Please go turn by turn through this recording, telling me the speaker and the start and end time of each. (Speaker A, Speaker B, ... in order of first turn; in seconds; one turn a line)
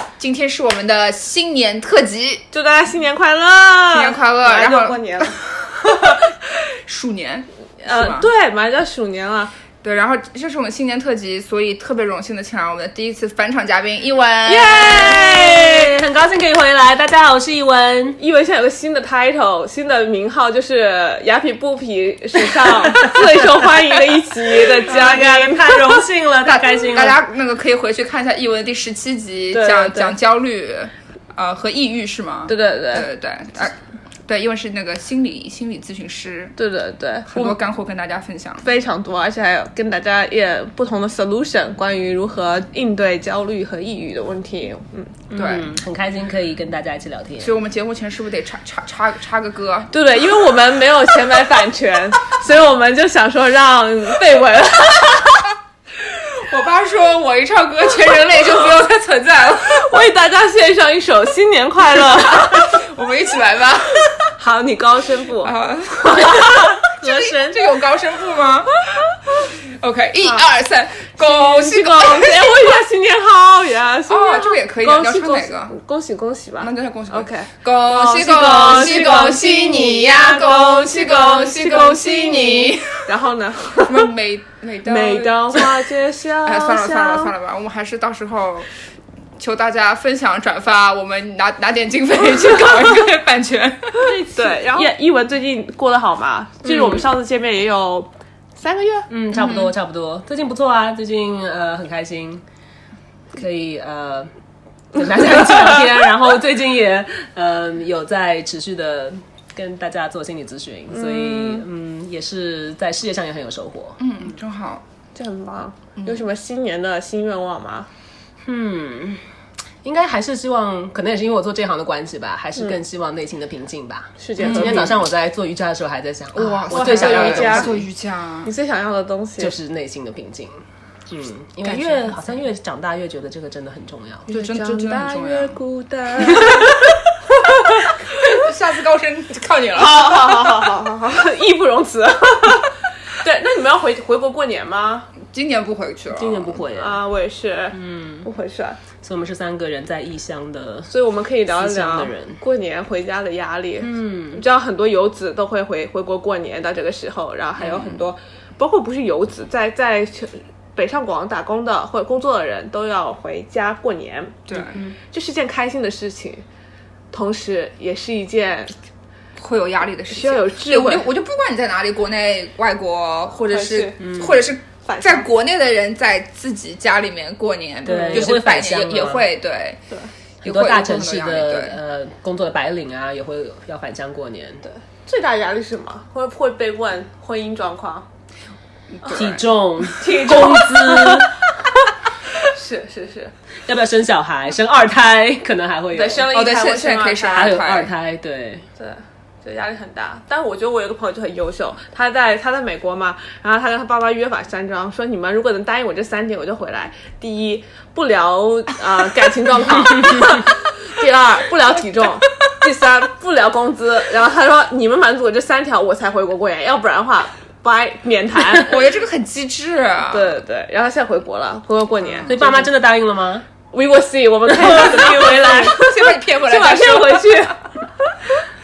Speaker A: 0.2-2.4
Speaker B: 2.5-6.2
Speaker A: 3.9-6.1
Speaker A: 6.8-8.3
Speaker B: 7.8-9.5
Speaker A: 9.8-15.1
Speaker B: 14.4-15.9
Speaker C: 14.6-18.2
Speaker B: 18.2-25.8
Speaker C: 23.0-23.4
Speaker C: 24.5-27.2
Speaker A: 26.4-36.5
Speaker B: 29.5-30.2
Speaker B: 32.5-33.1
Speaker B: 36.6-37.6
Speaker A: 37.3-38.7
Speaker B: 38.6-45.2
Speaker C: 45.3-47.5
Speaker A: 45.3-45.7
Speaker A: 47.4-49.9
Speaker B: 49.9-55.5
Speaker A: 56.0-59.9
Speaker B: 59.6-62.8
Speaker A: 62.4-64.1
Speaker B: 64.4-65.5
Speaker A: 65.4-72.8
Speaker B: 66.1-66.8
Speaker C: 67.0-67.5
Speaker B: 70.2-70.5
Speaker B: 71.2-84.1
Speaker A: 74.1-75.7
Speaker A: 76.6-83.1
Speaker A: 83.8-85.9
Speaker B: 84.8-87.3
Speaker A: 86.4-88.7
Speaker A: 89.4-94.9
Speaker B: 94.0-99.1
Speaker C: 99.1-102.4
Speaker A: 99.3-99.7
Speaker C: 103.3-104.3
Speaker C: 104.9-114.0
Speaker B: 110.9-111.6
Speaker A: 114.0-114.8
Speaker B: 115.1-117.9
Speaker A: 116.0-116.2
Speaker C: 118.4-119.2
Speaker C: 119.8-127.8
Speaker B: 124.2-125.0
Speaker A: 124.4-125.0
Speaker A: 126.3-128.5
Speaker B: 126.7-127.8
Speaker B: 128.4-129.6
Speaker C: 129.4-130.5
Speaker C: 131.1-134.3
Speaker A: 131.7-132.2
Speaker B: 134.3-136.9
Speaker A: 134.3-135.6
Speaker A: 138.1-140.7
Speaker B: 139.7-145.1
Speaker A: 145.3-146.6
Speaker C: 146.1-147.0
Speaker B: 146.7-148.8
Speaker C: 147.7-148.3
Speaker C: 149.0-150.9
Speaker B: 150.9-164.4
Speaker C: 151.5-152.4
Speaker C: 153.8-154.4
Speaker A: 157.6-158.0
Speaker A: 164.4-164.8
Speaker C: 164.5-164.9
Speaker B: 165.1-166.4
Speaker B: 167.1-168.7
Speaker A: 169.4-179.8
Speaker B: 170.1-171.1
Speaker B: 173.5-174.2
Speaker C: 174.0-174.4
Speaker B: 174.8-175.3
Speaker C: 177.8-179.2
Speaker B: 177.8-178.3
Speaker C: 180.4-184.6
Speaker A: 180.4-181.8
Speaker B: 184.6-188.1
Speaker A: 188.9-189.4
Speaker C: 189.1-191.4
Speaker B: 189.9-191.3
Speaker B: 192.4-193.3
Speaker C: 193.7-196.3
Speaker B: 195.9-197.6
Speaker A: 196.3-197.9
Speaker C: 197.3-198.6
Speaker B: 198.8-218.8
Speaker A: 218.5-220.4
Speaker B: 220.1-222.7
Speaker A: 222.0-222.3
Speaker C: 222.2-223.4
Speaker B: 223.7-227.7
Speaker C: 224.6-225.4
Speaker A: 224.8-227.5